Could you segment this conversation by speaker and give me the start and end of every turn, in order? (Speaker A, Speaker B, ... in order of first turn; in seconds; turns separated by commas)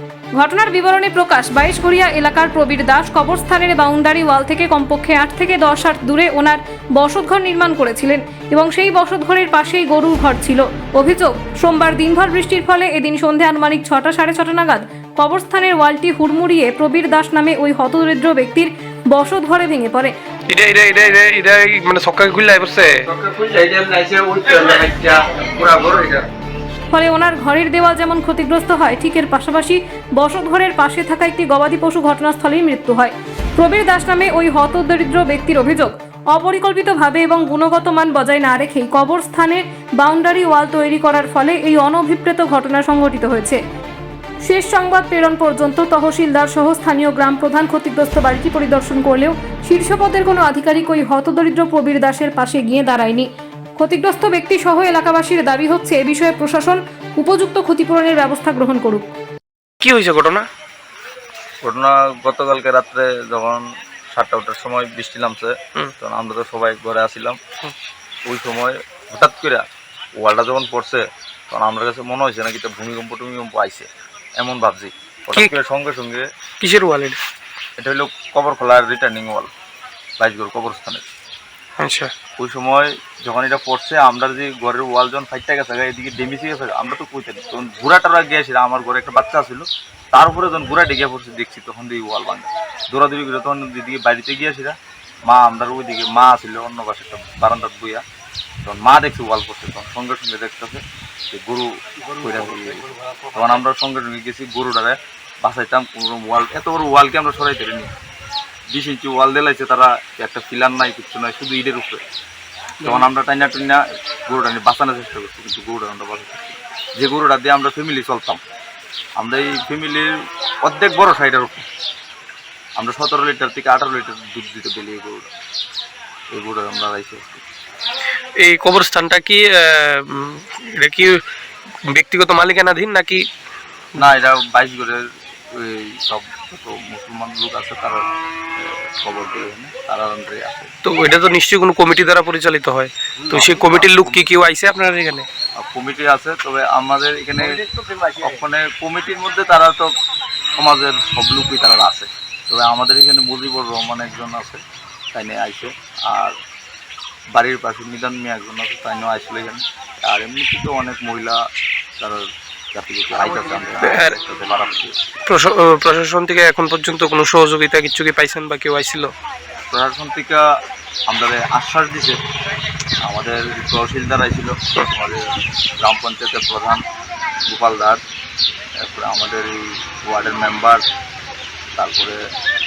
Speaker A: 0.3-20.1, Speaker B: 20.5-23.0, Speaker C: 23.0-26.3, Speaker A: 26.9-43.6, Speaker A: 44.4-59.0, Speaker B: 59.8-60.5, Speaker D: 61.6-67.4, Speaker D: 68.2-69.6, Speaker D: 70.2-76.2, Speaker B: 76.6-77.2, Speaker D: 77.8-79.5, Speaker D: 80.2-81.0, Speaker B: 81.8-82.1, Speaker D: 82.4-94.8, Speaker D: 95.3-98.0, Speaker D: 98.7-107.9, Speaker D: 108.7-112.0, Speaker B: 112.8-113.1, Speaker D: 112.8-118.4, Speaker D: 119.2-120.1, Speaker D: 120.6-121.6, Speaker D: 122.8-125.3, Speaker D: 126.3-127.4, Speaker B: 128.4-131.2, Speaker B: 131.9-133.2, Speaker D: 134.0-135.0, Speaker D: 135.5-138.0, Speaker D: 138.6-140.7, Speaker B: 140.8-145.3, Speaker D: 143.3-144.3, Speaker D: 145.6-147.6, Speaker D: 148.1-149.9, Speaker D: 150.6-154.6, Speaker D: 155.1-156.3, Speaker D: 157.3-161.4, Speaker D: 162.0-164.9, Speaker B: 163.8-164.2, Speaker B: 165.3-169.1, Speaker D: 169.7-170.4, Speaker D: 171.1-172.2, Speaker D: 173.0-175.2, Speaker D: 175.8-176.8, Speaker D: 177.4-178.0, Speaker D: 178.8-180.8, Speaker D: 181.8-182.2